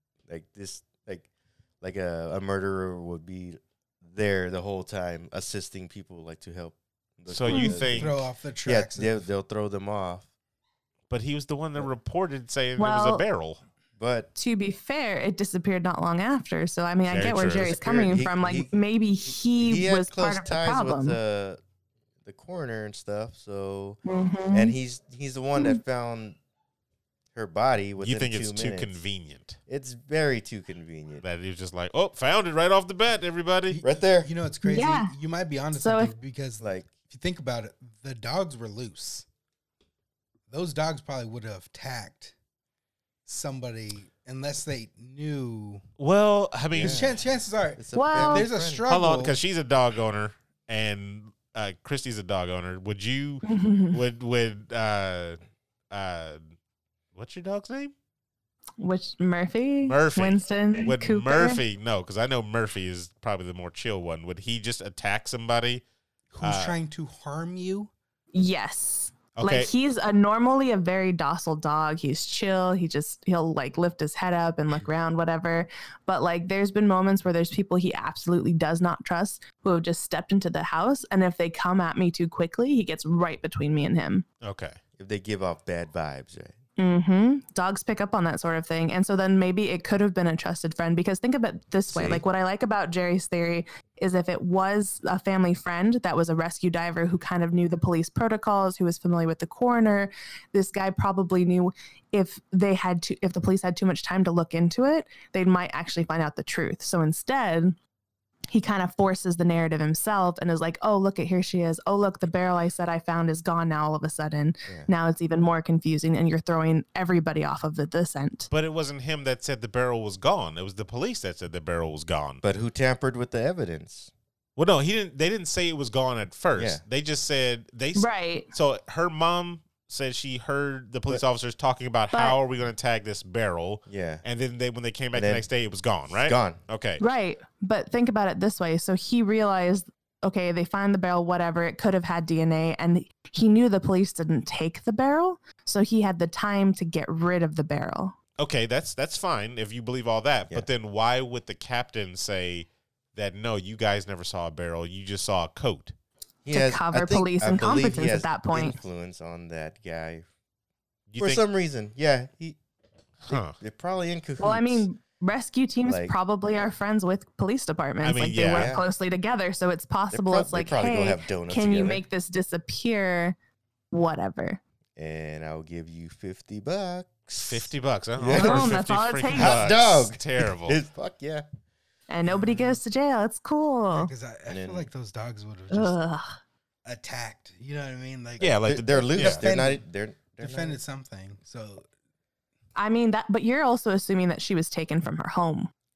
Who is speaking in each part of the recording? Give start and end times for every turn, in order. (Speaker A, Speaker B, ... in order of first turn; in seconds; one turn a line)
Speaker A: 0.3-1.3
Speaker A: 1.8-10.3
Speaker B: 7.3-8.2
Speaker C: 7.5-7.8
Speaker D: 7.9-9.2
Speaker B: 11.1-13.6
Speaker C: 12.8-13.2
Speaker A: 14.0-14.3
Speaker C: 14.3-21.2
Speaker B: 17.1-17.8
Speaker A: 17.5-18.7
Speaker A: 19.2-21.6
Speaker A: 22.2-24.0
Speaker C: 24.0-24.7
Speaker A: 24.5-26.4
Speaker A: 27.3-29.0
Speaker B: 28.0-29.6
Speaker A: 29.7-31.2
Speaker B: 31.2-33.8
Speaker D: 33.7-39.2
Speaker A: 33.8-34.3
Speaker C: 34.6-35.1
Speaker C: 35.7-36.1
Speaker A: 36.6-36.9
Speaker D: 40.5-42.3
Speaker D: 43.2-45.8
Speaker B: 46.0-47.2
Speaker A: 46.7-47.2
Speaker D: 46.8-49.4
Speaker A: 47.8-48.8
Speaker C: 47.9-48.5
Speaker B: 48.9-55.4
Speaker C: 53.5-54.0
Speaker B: 55.9-56.5
Speaker B: 57.1-57.9
Speaker C: 58.8-61.6
Speaker B: 59.8-65.8
Speaker D: 66.3-67.9
Speaker B: 66.4-66.8
Speaker C: 68.3-84.2
Speaker B: 69.3-69.7
Speaker B: 84.4-84.8
Speaker A: 85.0-86.5
Speaker C: 86.8-107.8
Speaker A: 91.9-92.2
Speaker C: 108.5-118.5
Speaker B: 118.5-122.4
Speaker A: 122.4-124.1
Speaker B: 124.5-137.0
Speaker A: 126.5-126.8
Speaker C: 128.0-128.5
Speaker A: 133.9-134.2
Speaker A: 135.1-135.4
Speaker A: 136.1-136.6
Speaker C: 137.0-148.2
Speaker B: 148.4-155.9
Speaker A: 156.4-160.2
Speaker C: 156.5-158.8
Speaker B: 161.1-161.4
Speaker A: 161.2-162.6
Speaker B: 163.2-163.6
Speaker A: 163.3-164.8
Speaker C: 164.4-173.3
Speaker A: 165.8-166.1
Speaker B: 168.0-168.7
Speaker A: 168.5-168.9
Speaker A: 170.1-172.0
Speaker C: 173.9-174.6
Speaker A: 174.9-178.8
Speaker B: 177.4-180.8
Speaker C: 178.3-179.6
Speaker A: 179.3-181.4
Speaker C: 182.1-184.1
Speaker D: 182.2-182.8
Speaker D: 183.9-186.0
Speaker A: 184.5-184.9
Speaker C: 185.7-186.4
Speaker D: 186.8-188.6
Speaker B: 188.4-189.4
Speaker A: 188.6-190.8
Speaker D: 189.1-189.8
Speaker D: 190.4-191.8
Speaker C: 192.8-195.7